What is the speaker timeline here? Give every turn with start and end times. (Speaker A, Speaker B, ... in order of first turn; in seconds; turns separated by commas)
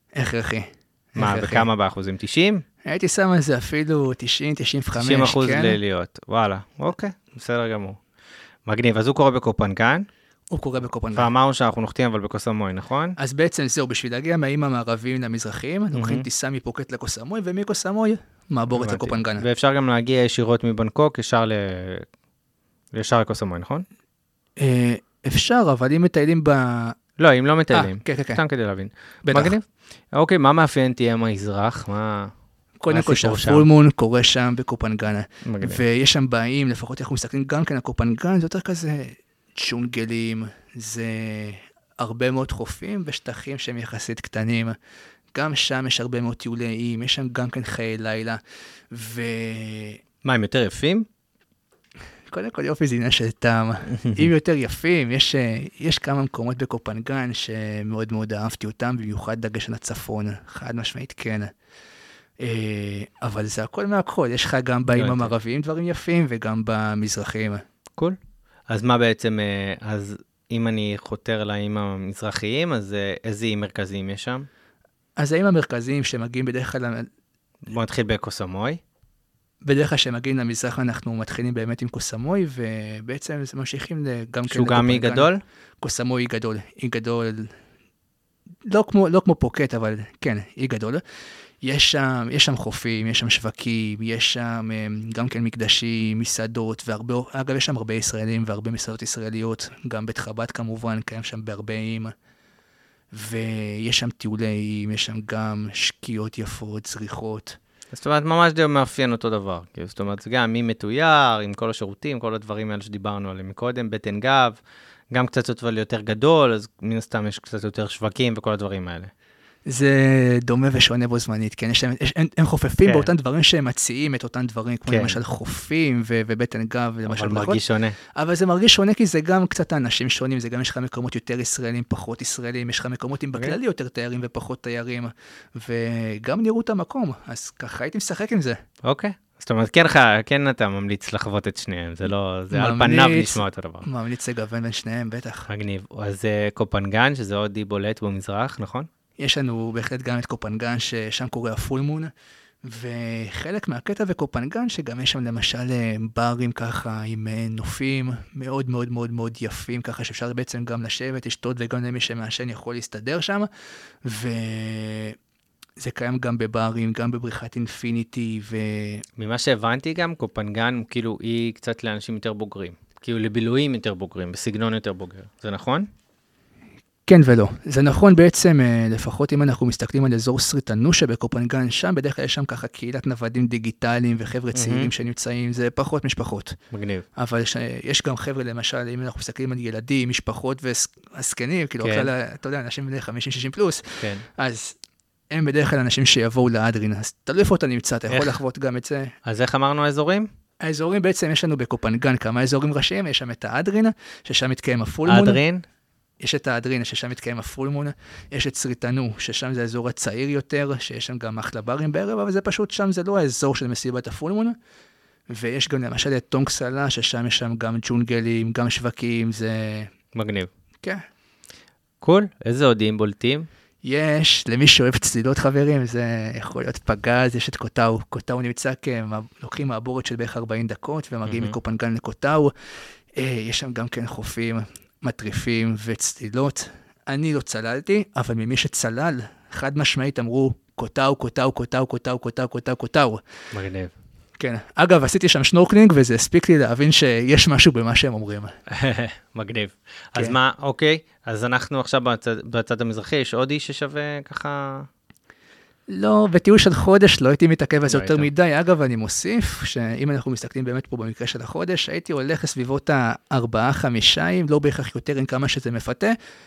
Speaker A: 0.1-1.7, Speaker B: 1.2-2.6, Speaker A: 2.8-5.8, Speaker B: 5.0-8.0, Speaker B: 8.7-10.1, Speaker A: 10.5-11.3, Speaker B: 11.2-13.2, Speaker A: 13.2-19.4, Speaker B: 15.9-16.3, Speaker B: 18.7-22.1, Speaker B: 22.9-23.9, Speaker A: 24.6-27.0, Speaker B: 27.2-32.3, Speaker A: 27.7-28.4, Speaker A: 29.3-29.6, Speaker A: 32.8-44.8, Speaker B: 32.9-33.7, Speaker B: 35.5-35.8, Speaker A: 45.3-48.4, Speaker A: 48.9-50.0, Speaker B: 50.2-51.1, Speaker A: 52.3-61.5, Speaker B: 53.9-54.3, Speaker A: 62.4-67.6, Speaker B: 64.9-65.3, Speaker B: 68.7-74.5, Speaker A: 75.2-77.1, Speaker B: 77.7-78.8, Speaker A: 79.6-85.3, Speaker B: 84.5-85.4, Speaker A: 85.8-87.5, Speaker A: 88.7-91.0, Speaker A: 91.6-102.1, Speaker A: 103.1-107.6, Speaker B: 107.9-114.6, Speaker B: 115.1-119.1, Speaker A: 119.7-127.6, Speaker B: 122.8-123.1, Speaker B: 124.9-125.2, Speaker B: 127.1-128.0, Speaker A: 128.1-138.6, Speaker B: 138.8-143.9, Speaker A: 142.5-145.5, Speaker B: 145.5-148.9, Speaker A: 149.2-152.1, Speaker A: 152.6-163.5, Speaker A: 164.0-165.2, Speaker A: 165.8-169.1, Speaker B: 169.2-175.9, Speaker A: 177.1-186.6, Speaker B: 184.5-184.9, Speaker B: 186.7-187.1, Speaker A: 187.2-194.8, Speaker B: 191.8-192.1, Speaker B: 194.0-194.2, Speaker A: 195.3-199.2, Speaker B: 198.1-198.4, Speaker B: 199.2-200.3, Speaker A: 200.6-205.4, Speaker B: 205.1-205.6, Speaker A: 206.2-214.6, Speaker A: 215.3-219.9, Speaker B: 220.1-220.5, Speaker B: 222.0-223.5, Speaker A: 223.8-232.5, Speaker B: 231.2-231.6, Speaker A: 233.1-243.2, Speaker B: 243.5-243.9, Speaker A: 244.4-248.5, Speaker B: 248.7-254.9, Speaker A: 255.9-266.1, Speaker B: 257.9-258.3